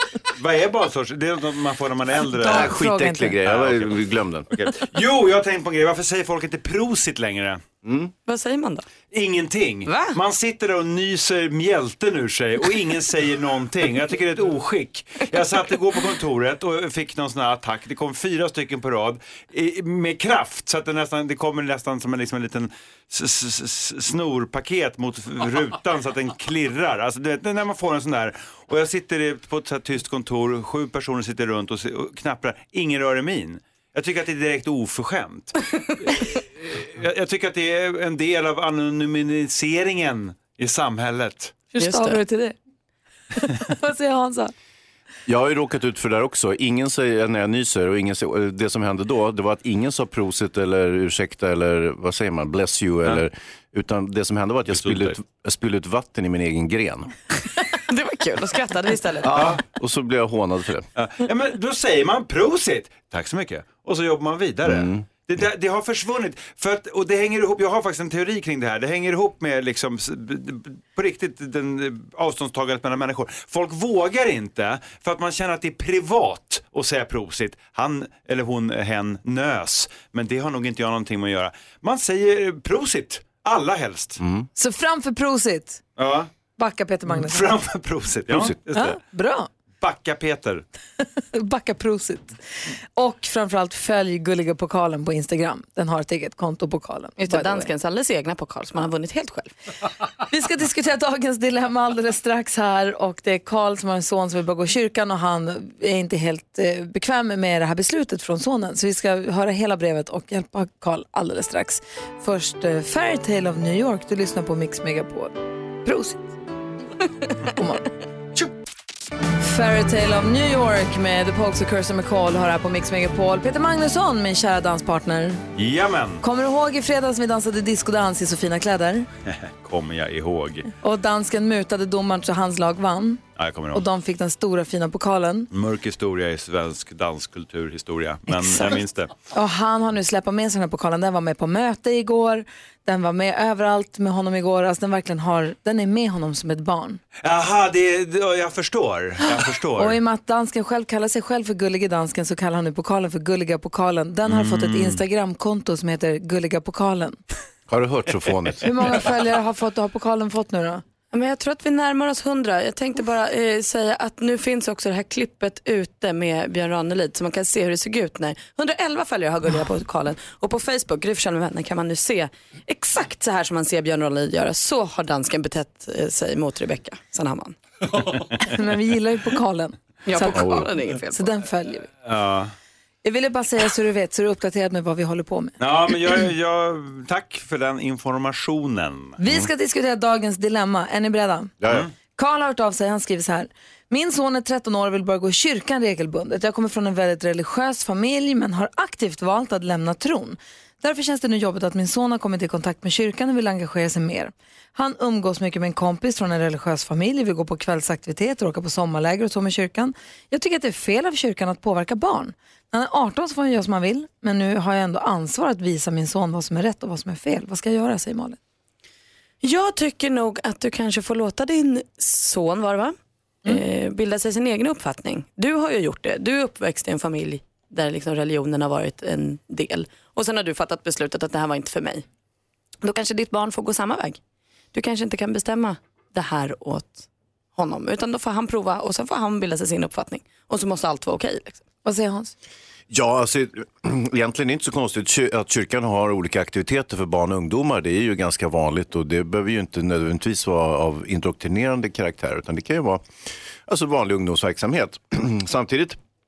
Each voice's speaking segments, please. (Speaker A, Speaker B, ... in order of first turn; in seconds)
Speaker A: 0.3-2.8, 3.4-4.0, 4.5-7.6, 9.1-35.5, 36.1-41.6, 54.7-55.2, 59.3-59.6, 61.0-84.2, 86.0-86.3, 87.1-89.0, 89.8-90.6, 125.5-126.2, 129.3-130.7, 133.4-133.8, 135.5-139.1, 147.2-150.0, 154.2-155.0, 182.0-182.5, 185.6-189.2, 191.7-191.9
Speaker B: 2.3-3.4, 41.8-42.5, 43.4-44.5, 84.6-85.8, 86.6-87.5, 88.7-89.5, 91.3-92.4, 93.0-97.7, 100.3-115.3, 115.8-116.3, 117.5-117.8, 119.4-125.5, 126.2-129.1, 130.8-133.2, 133.7-135.5, 138.3-138.8, 139.3-147.0, 149.8-157.2, 158.6-160.8, 178.5-181.9, 183.0-185.6, 189.2-218.4, 241.8-242.3
Speaker C: 2.5-4.5, 7.8-8.1, 45.3-57.1, 59.2-60.9, 64.7-65.0, 84.2-84.5, 88.3-88.6, 157.7-158.7, 180.3-180.7, 191.6-191.9, 242.9-253.0, 253.7-256.0
Speaker D: 8.2-8.9, 9.9-10.2, 41.8-42.2, 57.9-59.4, 97.2-99.5, 161.1-177.6, 180.1-181.3, 219.4-232.1, 232.8-234.2, 234.7-241.6